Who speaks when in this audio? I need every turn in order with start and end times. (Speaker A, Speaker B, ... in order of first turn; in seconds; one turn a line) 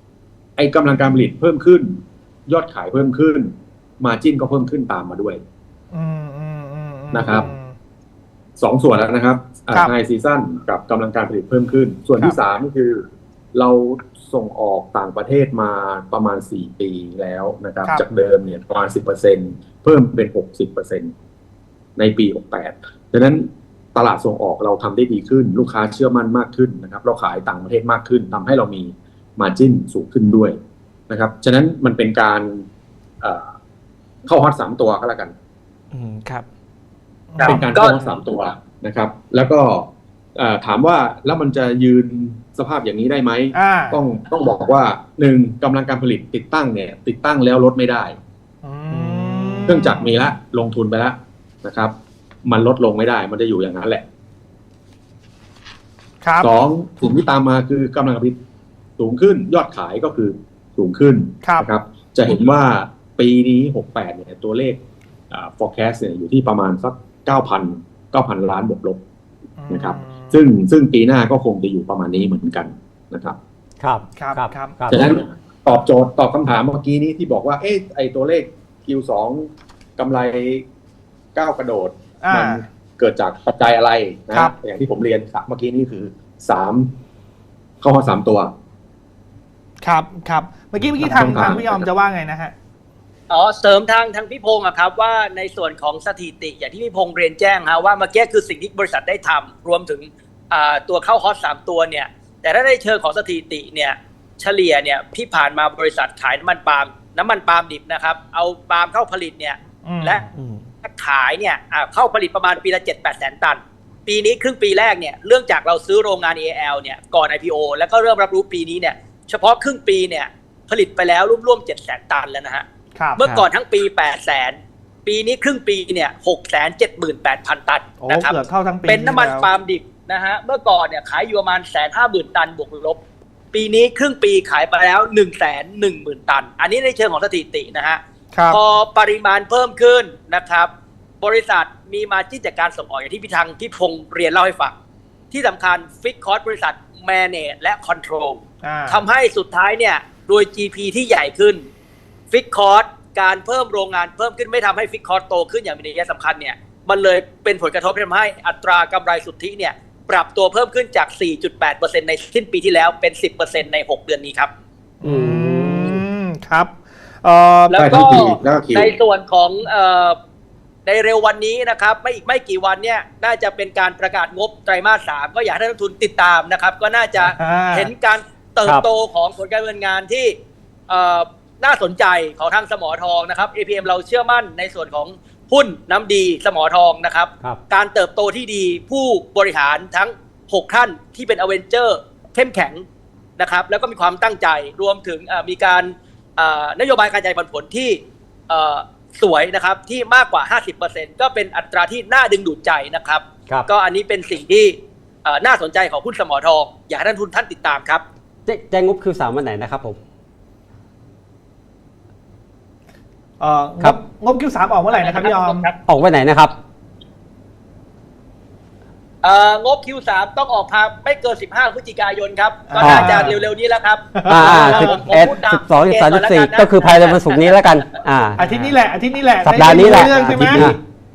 Speaker A: 0.6-5.4
Speaker B: 5.9-7.8
Speaker A: 7.1-7.5
Speaker A: 8.6-21.1
Speaker A: 22.0-30.6
Speaker A: 31.1-32.7
Speaker A: 33.2-33.5
Speaker A: 34.2-35.3
Speaker C: 35.9-36.4
Speaker B: 37.3-37.6
Speaker D: 37.4-38.0
Speaker A: 37.4-48.2
Speaker B: 43.5-44.0
Speaker B: 48.6-50.1
Speaker C: 48.9-49.6
Speaker A: 49.6-54.0
Speaker B: 56.2-56.5
Speaker A: 56.4-58.4
Speaker A: 59.0-64.8
Speaker B: 61.4-61.7
Speaker A: 65.3-69.0
Speaker B: 69.6-70.5
Speaker A: 69.7-73.4
Speaker E: 73.8-75.1
Speaker B: 74.2-74.8
Speaker A: 74.9-80.6
Speaker A: 81.3-86.9
Speaker B: 82.2-82.6
Speaker A: 87.8-88.5
Speaker B: 89.8-92.5
Speaker A: 91.0-91.9
Speaker D: 93.3-110.2
Speaker B: 109.8-110.2
Speaker C: 110.3-110.7
Speaker D: 110.8-122.6
Speaker B: 123.0-123.2
Speaker D: 123.2-133.0
Speaker C: 123.2-123.5
Speaker B: 128.0-129.5
Speaker D: 133.5-140.7
Speaker B: 138.3-138.6
Speaker D: 141.2-144.7
Speaker D: 145.3-151.6
Speaker B: 148.6-149.0
Speaker D: 152.3-164.5
Speaker B: 165.0-167.9
Speaker E: 165.0-166.0
Speaker D: 167.7-170.2
Speaker A: 167.8-168.9
Speaker D: 170.8-180.3
Speaker B: 177.2-177.9
Speaker D: 180.9-192.8
Speaker D: 193.4-208.0
Speaker E: 208.4-210.0
Speaker B: 213.4-215.7
Speaker D: 214.9-215.8
Speaker E: 215.8-216.6
Speaker D: 219.2-227.7
Speaker B: 222.7-223.4
Speaker E: 222.8-223.3
Speaker B: 224.1-225.0
Speaker E: 224.3-228.4
Speaker B: 228.4-230.7
Speaker C: 228.4-228.7
Speaker E: 229.4-230.8
Speaker A: 229.8-230.8